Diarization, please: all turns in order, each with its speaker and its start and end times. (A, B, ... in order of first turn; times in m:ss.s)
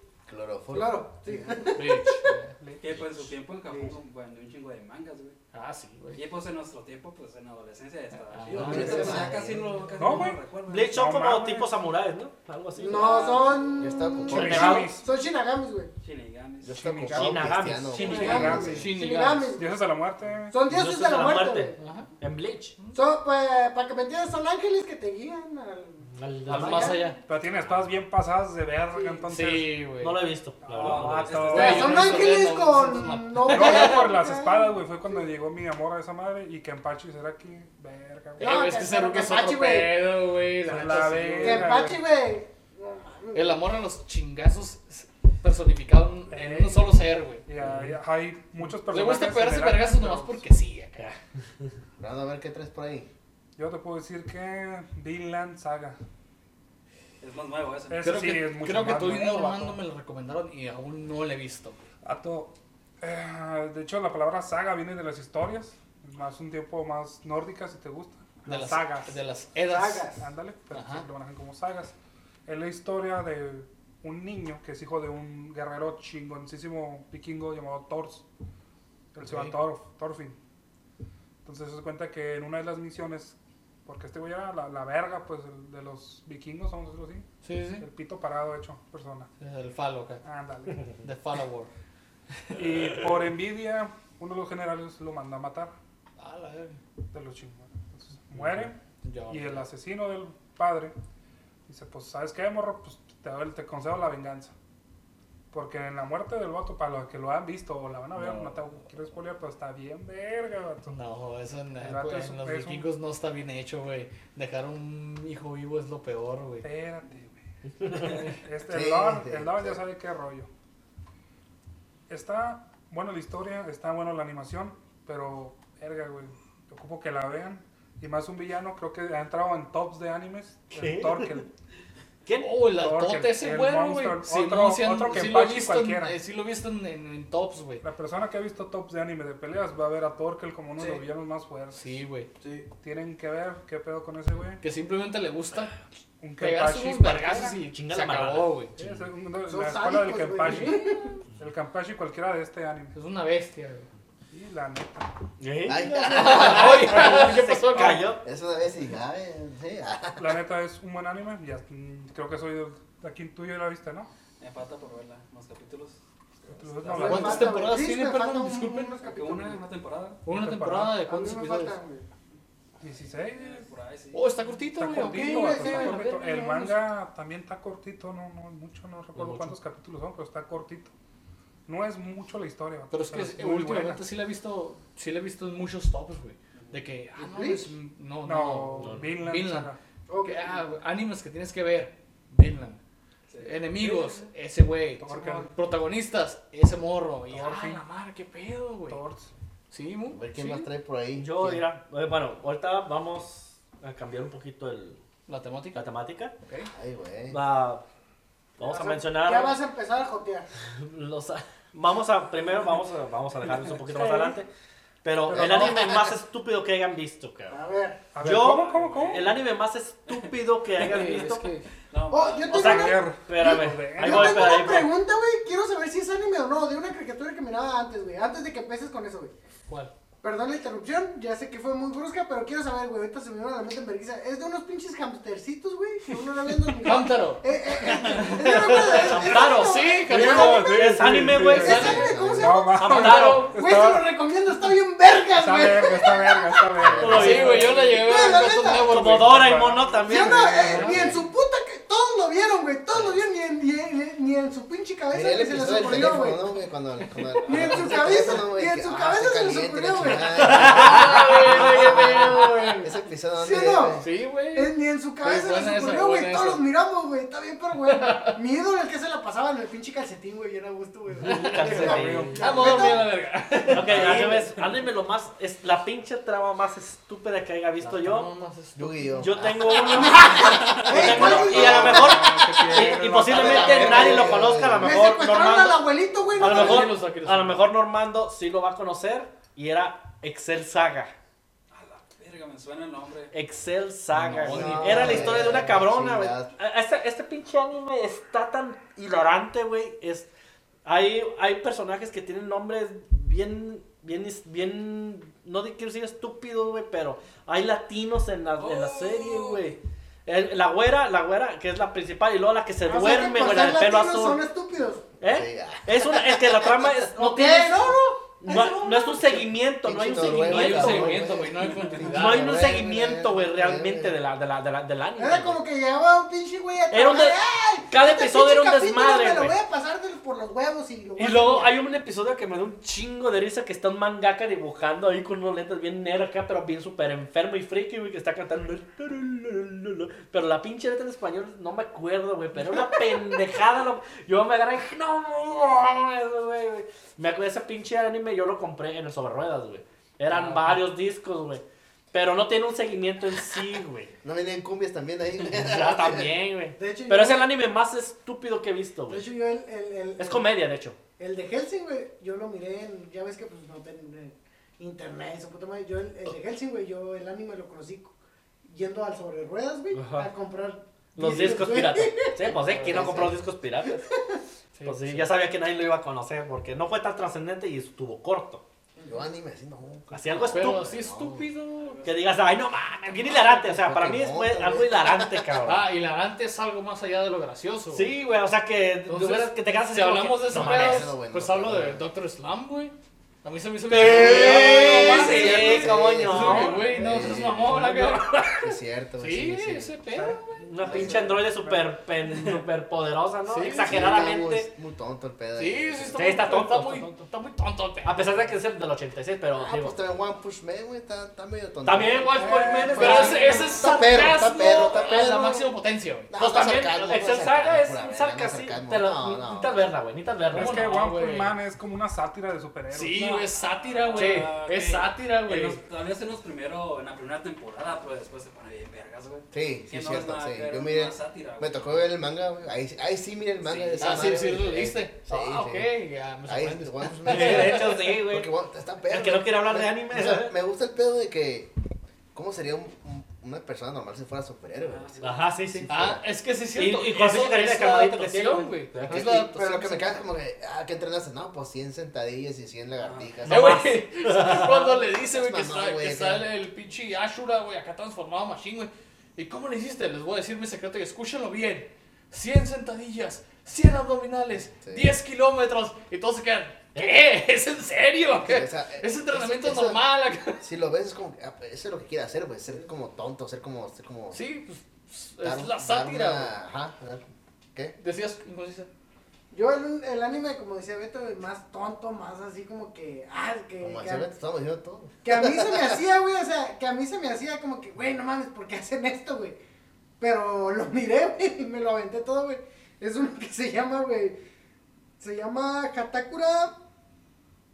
0:00.3-0:01.0 A
0:00.7-0:02.3 B
0:01.3-0:01.6 C
0:01.7-0:02.5 D
0:02.6-0:02.9 E
0:02.8-0:05.4 C
0:03.7-0:04.0 B
0:05.5-0:06.2 D
0:06.2-0:11.0 C
0:08.3-0:09.3 D
0:08.5-0:09.7 A
0:08.7-0:09.2 B
0:10.0-0:11.7 E
0:10.7-0:13.5 F
0:12.8-0:15.9 B
0:12.9-0:13.5 C
0:13.8-0:14.9 A
0:14.3-0:15.0 F
0:14.3-0:15.1 E
0:16.0-0:16.9 C
0:16.6-0:18.8 A
0:16.7-0:19.0 E
0:17.1-0:18.6 F
0:17.9-0:18.6 C
0:18.0-0:19.7 B
0:18.7-0:19.5 D
0:19.6-0:20.6 E
0:20.5-0:21.8 B
0:20.7-0:22.8 F
0:21.8-0:22.1 D
0:22.9-0:27.2 B
0:26.1-0:27.8 F
0:26.5-0:27.2 D
0:27.3-0:29.8 E
0:28.9-0:29.3 B
0:29.3-0:30.2 D
0:30.0-0:31.8 F
0:30.6-0:32.2 E
0:30.8-0:32.0 C
0:31.5-0:35.2 B
0:31.5-0:34.0 D
0:33.5-0:38.6 E
0:38.4-0:40.1 B
0:38.4-0:41.9 D
0:40.6-0:42.0 E
0:41.4-0:43.7 B
0:43.3-0:47.4 D
0:46.3-0:50.4 E
0:47.6-0:47.9 F
0:48.6-0:51.1 D
0:52.0-0:53.1 A
0:53.6-0:56.0 E
0:57.2-0:58.4 C
0:57.9-0:59.8 E
0:58.0-1:01.8 D
1:02.0-1:09.1 E
1:08.4-1:10.1 D
1:09.7-1:10.3 B
1:10.2-1:12.0 E
1:10.7-1:11.1 D
1:12.5-1:18.3 E
1:19.1-1:20.4 E
1:19.2-1:19.6 D
1:21.4-1:27.3 E
1:27.4-1:27.8 D
1:27.8-1:29.3 E
1:29.4-1:30.2 D
1:30.2-1:31.0 E
1:31.0-1:31.7 D
1:32.5-1:35.7 E
1:36.2-1:36.8 D
1:37.1-1:41.0 E
1:38.4-1:39.7 D
1:41.7-1:44.5 E
1:45.5-1:50.9 E
1:50.9-1:56.7 D
1:51.8-1:52.9 E
1:56.6-1:57.4 E
1:57.9-1:58.1 F
1:57.9-2:00.5 E
1:58.7-1:59.8 A
2:02.1-2:11.5 E
2:10.7-2:11.4 F
2:12.3-2:12.5 F
2:12.4-2:17.9 D
2:12.7-2:16.2 E
2:17.8-2:21.8 E
2:21.7-2:22.3 D
2:22.4-2:22.7 B
2:22.8-2:24.6 E
2:24.6-2:25.8 D
2:26.2-2:27.6 E
2:26.4-2:28.7 D
2:27.7-2:29.0 F
2:28.8-2:33.0 E
2:29.5-2:31.2 B
2:30.4-2:31.0 D
2:32.9-2:33.9 D
2:34.3-2:35.1 E
2:35.4-2:38.2 F
2:35.6-2:37.3 A
2:36.1-2:38.1 D
2:38.2-2:40.4 A
2:40.2-2:44.1 E
2:44.4-2:47.4 C
2:46.5-2:47.5 E
2:47.0-2:49.7 B
2:47.0-2:49.0 D
2:49.0-2:50.3 C
2:50.3-2:51.8 D
2:50.3-2:51.0 E
2:51.0-2:52.1 B
2:52.8-2:53.7 E
2:52.9-2:54.3 C
2:54.1-2:56.1 D
2:54.8-3:00.9 E
2:54.9-2:56.8 B
2:59.2-2:59.6 F
3:01.7-3:04.0 E
3:02.9-3:12.8 D
3:06.6-3:06.8 C
3:07.2-3:07.7 B
3:07.8-3:09.8 E
3:08.8-3:09.1 F
3:10.1-3:10.7 B
3:13.3-3:13.9 C
3:13.4-3:19.0 D
3:15.0-3:15.5 E
3:17.3-3:17.8 E
3:18.9-3:19.3 E
3:19.7-3:20.7 D
3:20.1-3:21.7 A
3:21.2-3:25.0 F
3:25.3-3:25.8 D
3:25.7-3:26.3 F
3:26.5-3:26.7 D
3:26.7-3:27.4 A
3:27.3-3:27.8 F
3:28.6-3:29.6 F
3:28.6-3:30.5 B
3:30.7-3:34.5 F
3:35.0-3:37.6 F
3:35.3-3:36.0 E
3:35.4-3:35.9 A
3:37.5-3:38.1 B
3:38.1-3:39.4 E
3:38.2-3:41.5 F
3:38.4-3:39.3 C
3:40.8-3:41.7 D
3:41.9-3:42.9 C
3:42.1-3:49.3 B
3:42.5-3:44.9 F
3:42.6-3:44.6 E
3:50.2-4:00.7 B
3:56.8-4:01.0 D
3:58.4-4:02.0 F
4:00.1-4:04.2 E
4:01.5-4:09.2 B
4:01.6-4:02.1 D
4:01.6-4:02.6 A
4:02.8-4:03.6 F
4:02.9-4:03.3 D
4:05.4-4:07.8 E
4:06.8-4:07.3 A
4:07.0-4:07.8 F
4:07.0-4:09.5 D
4:08.8-4:11.0 F
4:08.9-4:11.1 E
4:10.0-4:16.5 B
4:10.8-4:11.2 A
4:15.1-4:24.0 A
4:17.4-4:20.9 B
4:20.2-4:21.4 F
4:20.4-4:22.9 D
4:21.5-4:33.2 B
4:24.0-4:26.6 D
4:27.9-4:28.4 D
4:31.2-4:34.7 D
4:31.2-4:32.7 F
4:31.6-4:32.7 E
4:33.7-4:38.3 F
4:33.7-4:34.2 E
4:37.8-4:39.3 D
4:38.8-4:40.4 A
4:39.2-4:51.1 F
4:39.9-4:47.0 B
4:40.6-4:41.3 C
4:41.0-4:44.1 E
4:43.2-4:45.0 A
4:46.4-4:47.6 D
4:51.7-4:53.3 C
4:53.3-5:00.3 F
4:54.1-4:55.7 D
4:54.4-4:56.5 A
5:00.8-5:14.4 F
5:08.6-5:09.7 C
5:12.9-5:15.1 B
5:15.2-5:21.2 F
5:15.2-5:16.8 A
5:17.1-5:19.5 B
5:19.8-5:24.2 A
5:20.2-5:22.6 D
5:21.7-5:22.0 C
5:22.0-5:25.6 F
5:25.2-5:31.8 B
5:26.9-5:29.6 F
5:31.2-5:54.1 F
5:50.3-5:50.8 D
5:54.2-5:56.3 A
5:55.5-5:59.3 F
5:56.8-5:57.5 B
5:59.1-6:00.5 B
6:00.2-6:01.0 F
6:01.2-6:08.1 B
6:08.6-6:13.3 B
6:09.9-6:10.3 F
6:11.2-6:14.1 F
6:12.6-6:13.4 A
6:13.8-6:14.4 B
6:14.7-6:15.3 D
6:14.8-6:18.6 F
6:19.0-6:21.5 A
6:20.1-6:20.9 F
6:20.4-6:22.0 D
6:21.8-6:22.2 C
6:22.0-6:25.8 F
6:23.7-6:25.5 A
6:25.6-6:28.1 D
6:27.9-6:31.1 F
6:29.1-6:41.1 D
6:30.5-6:32.1 A
6:33.9-6:37.0 F
6:34.0-6:39.9 A
6:34.6-6:35.9 E
6:40.1-6:40.4 E
6:40.6-6:44.7 F
6:40.8-6:41.3 A
6:40.8-6:41.2 C
6:43.5-6:44.3 D
6:43.8-6:46.3 A
6:45.6-6:48.5 D
6:46.2-6:47.1 F
6:48.0-6:49.9 F
6:49.6-6:55.8 A
6:51.8-6:54.8 F
6:52.3-6:53.8 B
6:52.9-6:56.3 D
6:56.3-6:59.8 A
6:56.4-7:00.9 F
7:00.5-7:01.6 D
7:00.5-7:03.5 E
7:02.9-7:05.8 D
7:03.5-7:12.0 C
7:04.2-7:04.4 F
7:09.5-7:15.9 A
7:13.6-7:14.3 C
7:14.0-7:17.9 D
7:16.5-7:21.7 A
7:17.2-7:18.5 F
7:19.1-7:20.6 F
7:22.3-7:26.2 A
7:24.8-7:25.5 C
7:25.2-7:26.0 F
7:25.9-7:30.1 D
7:26.8-7:29.3 F
7:29.1-7:33.8 A
7:33.0-7:33.4 C
7:33.4-7:50.7 D
7:33.5-7:34.9 F
7:35.2-7:36.5 A
7:44.8-7:45.1 A
7:48.4-7:54.4 A
7:54.3-7:56.6 D
7:55.4-7:58.0 A
7:58.0-7:58.9 D
7:59.5-8:04.3 B
8:03.8-8:06.0 A
8:05.2-8:09.6 B
8:10.2-8:14.4 B
8:15.2-8:16.8 B